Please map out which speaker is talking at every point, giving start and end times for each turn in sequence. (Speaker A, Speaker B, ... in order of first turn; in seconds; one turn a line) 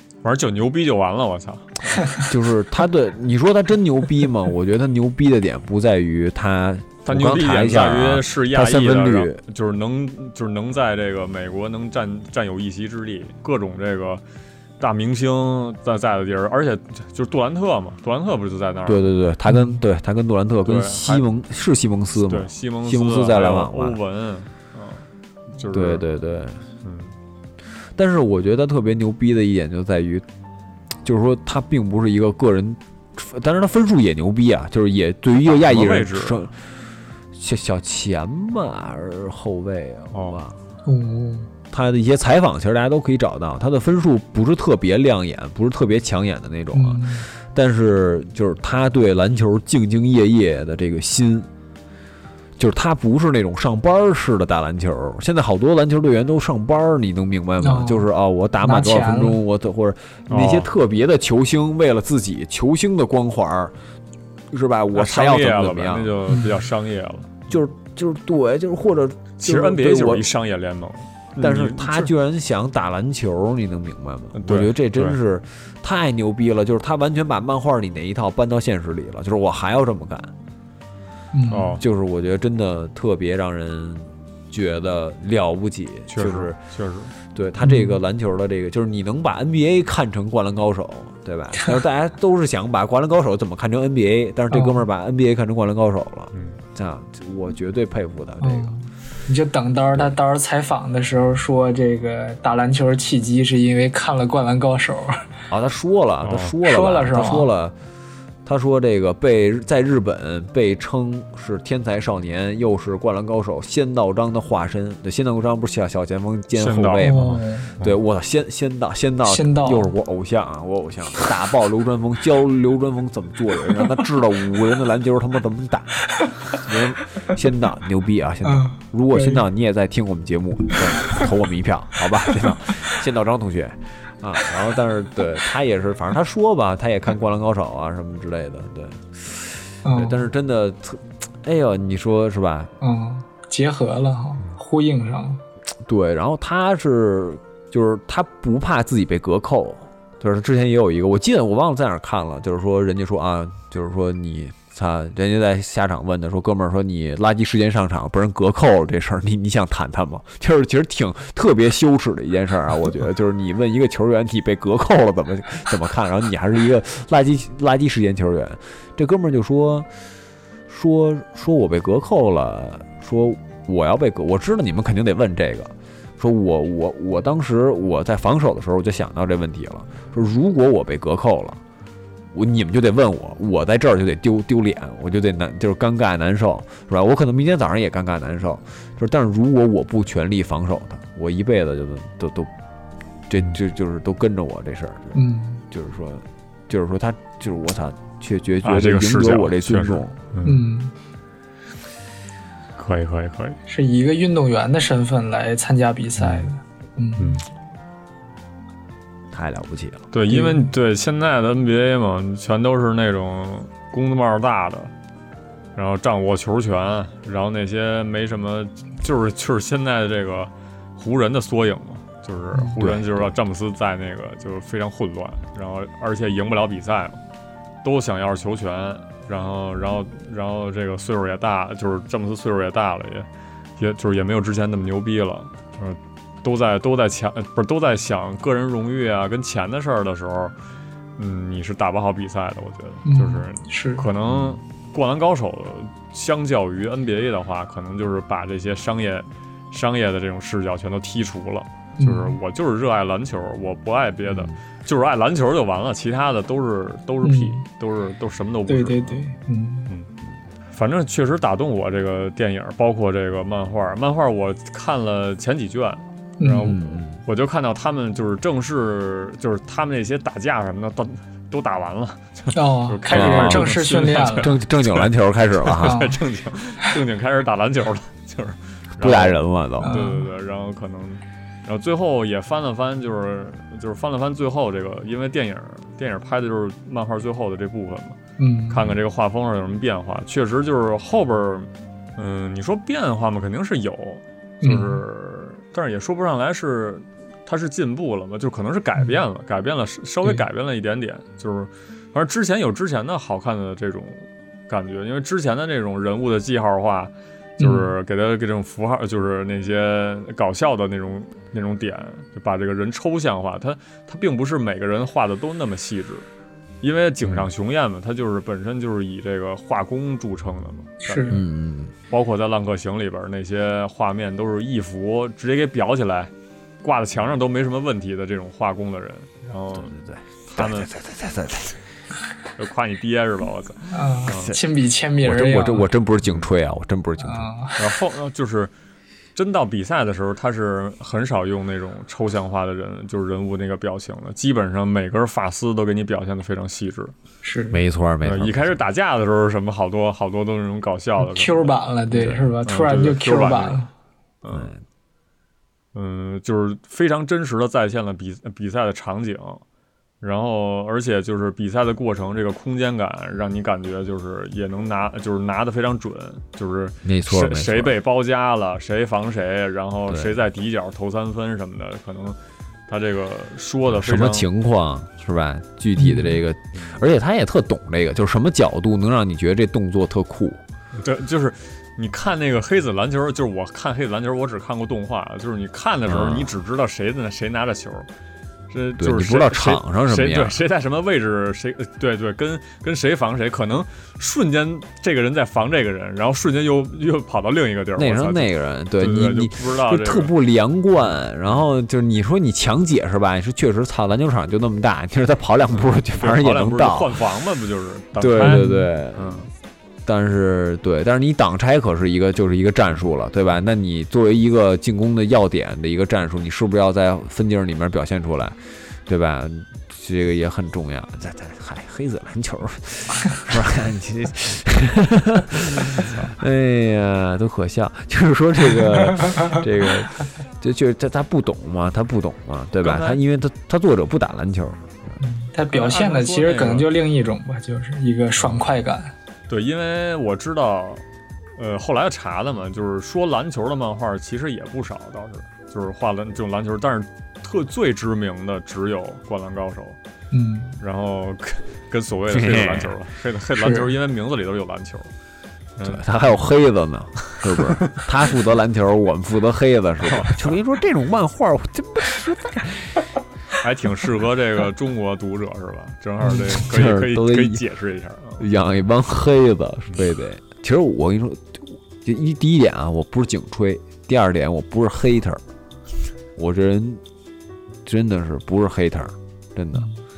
Speaker A: 0.2-2.0
Speaker B: 2.2-9.4
Speaker A: 7.1-14.2
Speaker A: 14.8-19.1
Speaker B: 18.9-24.0
Speaker C: 19.5-19.8
Speaker A: 20.6-21.3
Speaker A: 22.2-26.1
Speaker B: 25.7-26.6
Speaker A: 26.8-27.1
Speaker B: 28.0-30.2
Speaker B: 31.0-36.6
Speaker A: 35.5-36.5
Speaker B: 37.3-40.6
Speaker A: 40.1-40.4
Speaker C: 40.9-41.5
Speaker B: 41.7-51.5
Speaker C: 46.7-47.3
Speaker B: 52.6-63.8
Speaker C: 57.6-58.1
Speaker C: 58.6-59.4
Speaker A: 60.3-60.7
Speaker B: 64.5-66.2
Speaker A: 64.9-67.5
Speaker C: 66.3-66.6
Speaker B: 67.5-70.3
Speaker A: 69.4-72.1
Speaker B: 71.4-80.3
Speaker A: 74.3-75.2
Speaker C: 81.3-81.8
Speaker A: 81.5-81.8
Speaker B: 81.8-86.6
Speaker A: 86.1-87.1
Speaker B: 87.3-98.7
Speaker C: 87.6-88.0
Speaker C: 94.5-94.8
Speaker A: 96.3-96.6
Speaker C: 98.4-105.2
Speaker B: 105.5-107.8
Speaker A: 106.2-106.5
Speaker C: 106.6-107.5
Speaker B: 108.5-126.0
Speaker A: 116.5-117.9
Speaker C: 117.0-117.7
Speaker C: 119.2-119.9
Speaker B: 126.5-142.7
Speaker C: 128.4-129.4
Speaker C: 139.8-140.2
Speaker C: 142.8-145.4
Speaker B: 145.8-169.9
Speaker B: 170.7-181.6
Speaker B: 182.3-192.5
Speaker B: 193.3-200.2
Speaker C: 195.1-195.6
Speaker A: 198.6-200.6
Speaker C: 200.4-200.9
Speaker A: 202.8-203.6
Speaker C: 203.7-207.4
Speaker A: 207.2-207.4
Speaker B: 209.3-210.1
Speaker A: 210.1-214.9
Speaker C: 210.3-210.6
Speaker A: 215.8-227.2
Speaker B: 222.8-223.3
Speaker A: 227.8-233.3
Speaker A: 233.8-240.5
Speaker A: 241.2-259.2
Speaker C: 243.1-244.1
Speaker B: 244.3-244.6
Speaker C: 252.0-252.4
Speaker B: 254.3-254.6
Speaker C: 257.2-257.6
Speaker C: 258.7-259.9
Speaker A: 260.7-288.2
Speaker C: 266.4-266.8
Speaker B: 266.6-267.2
Speaker C: 272.5-274.5
Speaker B: 273.1-276.1
Speaker C: 275.8-276.2
Speaker B: 279.0-279.9
Speaker C: 279.8-280.3
Speaker C: 288.4-288.8
Speaker A: 288.7-316.3
Speaker C: 294.6-295.0
Speaker C: 307.6-307.9
Speaker A: 316.8-321.4
Speaker C: 321.0-321.4
Speaker B: 321.3-321.9
Speaker A: 322.1-326.3
Speaker A: 326.8-329.9
Speaker B: 329.8-331.8
Speaker A: 330.5-330.9
Speaker A: 332.6-334.5
Speaker C: 333.9-335.9
Speaker B: 335.2-337.5
Speaker C: 337.2-337.9
Speaker A: 337.8-338.7
Speaker A: 339.4-347.1
Speaker C: 347.4-347.8
Speaker B: 347.7-348.8
Speaker A: 348.2-351.8
Speaker C: 351.2-353.9
Speaker B: 352.1-352.5
Speaker A: 352.6-353.9
Speaker A: 354.4-354.7
Speaker B: 354.5-354.8
Speaker A: 355.9-359.6
Speaker A: 360.2-374.5
Speaker B: 367.1-368.0
Speaker B: 370.1-370.4
Speaker B: 373.9-380.6
Speaker C: 376.0-376.4
Speaker A: 381.0-388.1
Speaker B: 386.1-386.5
Speaker A: 388.7-400.3
Speaker B: 389.0-390.6
Speaker B: 398.0-407.2
Speaker A: 405.7-409.5
Speaker B: 408.2-409.4
Speaker C: 408.4-408.9
Speaker B: 410.1-435.2
Speaker A: 425.9-426.3
Speaker A: 432.8-433.2
Speaker C: 435.2-439.1
Speaker A: 435.7-436.9
Speaker A: 439.5-441.0
Speaker A: 441.6-450.0
Speaker C: 450.3-450.8
Speaker A: 450.8-455.1
Speaker B: 452.3-453.0
Speaker C: 453.6-453.9
Speaker A: 455.8-456.0
Speaker B: 455.8-463.0
Speaker A: 457.4-458.0
Speaker A: 460.0-460.5
Speaker A: 463.6-468.5
Speaker B: 466.3-467.6
Speaker B: 468.4-475.4
Speaker B: 476.4-477.0
Speaker B: 477.9-479.9